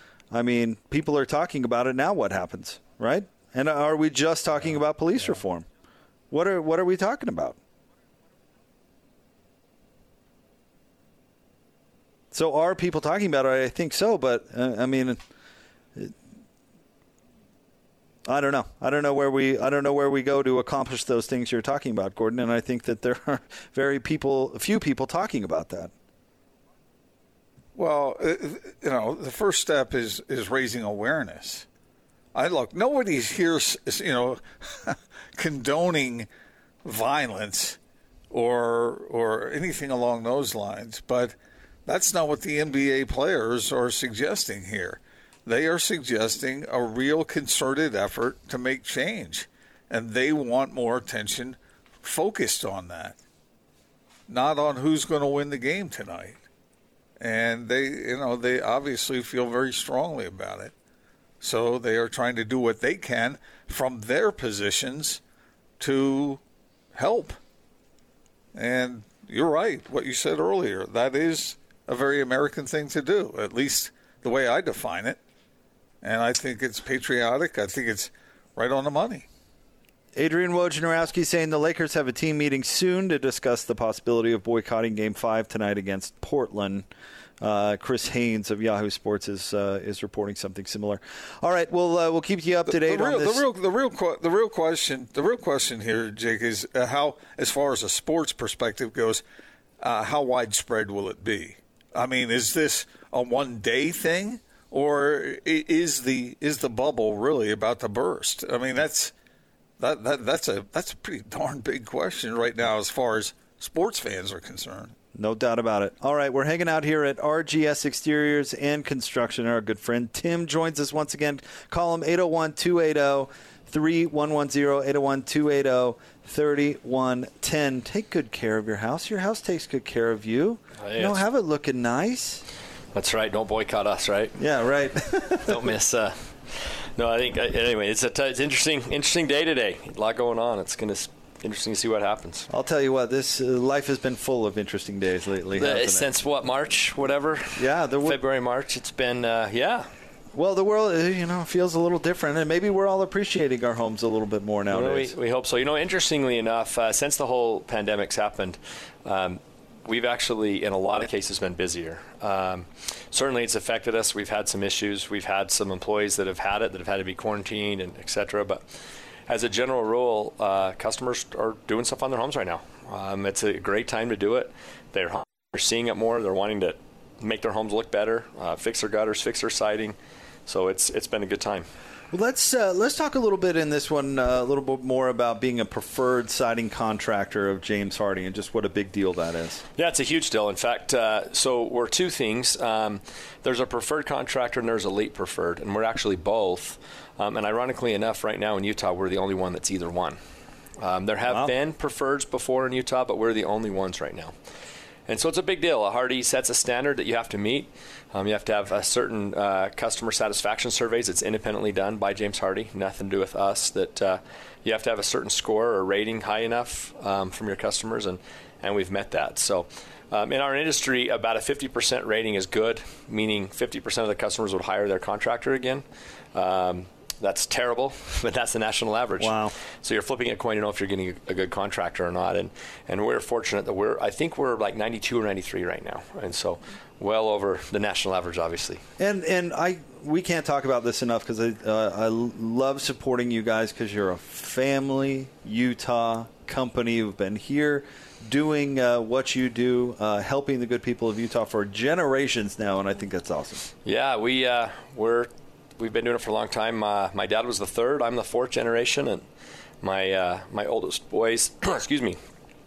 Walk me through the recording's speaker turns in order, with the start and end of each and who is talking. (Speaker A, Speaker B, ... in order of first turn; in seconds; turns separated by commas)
Speaker A: 0.3-5.7, Speaker A: 6.3-7.6, Speaker A: 12.3-15.2, Speaker A: 18.2-25.9, Speaker B: 27.7-31.6, Speaker B: 32.3-36.3, Speaker B: 36.8-37.8, Speaker B: 38.3-53.2, Speaker B: 54.3-56.4, Speaker B: 57.2-60.7, Speaker B: 61.4-65.2, Speaker B: 65.8-66.4, Speaker B: 66.9-67.4, Speaker B: 68.5-75.2, Speaker B: 76.0-79.2, Speaker A: 80.1-86.9, Speaker A: 87.4-93.5, Speaker B: 92.7-99.2, Speaker B: 99.8-109.1, Speaker B: 109.8-114.9, Speaker A: 115.1-132.4, Speaker C: 130.8-131.2, Speaker C: 132.9-134.4, Speaker A: 134.4-135.7, Speaker C: 135.4-142.5, Speaker A: 142.5-146.1, Speaker C: 145.6-149.9, Speaker A: 147.6-148.2, Speaker A: 150.3-155.1, Speaker C: 154.7-168.7, Speaker C: 169.3-181.7, Speaker A: 182.1-189.6, Speaker C: 189.8-200.2, Speaker C: 200.8-204.3, Speaker C: 205.1-238.8, Speaker A: 229.2-229.5, Speaker A: 239.0-253.7, Speaker C: 253.8-259.2, Speaker C: 259.8-262.2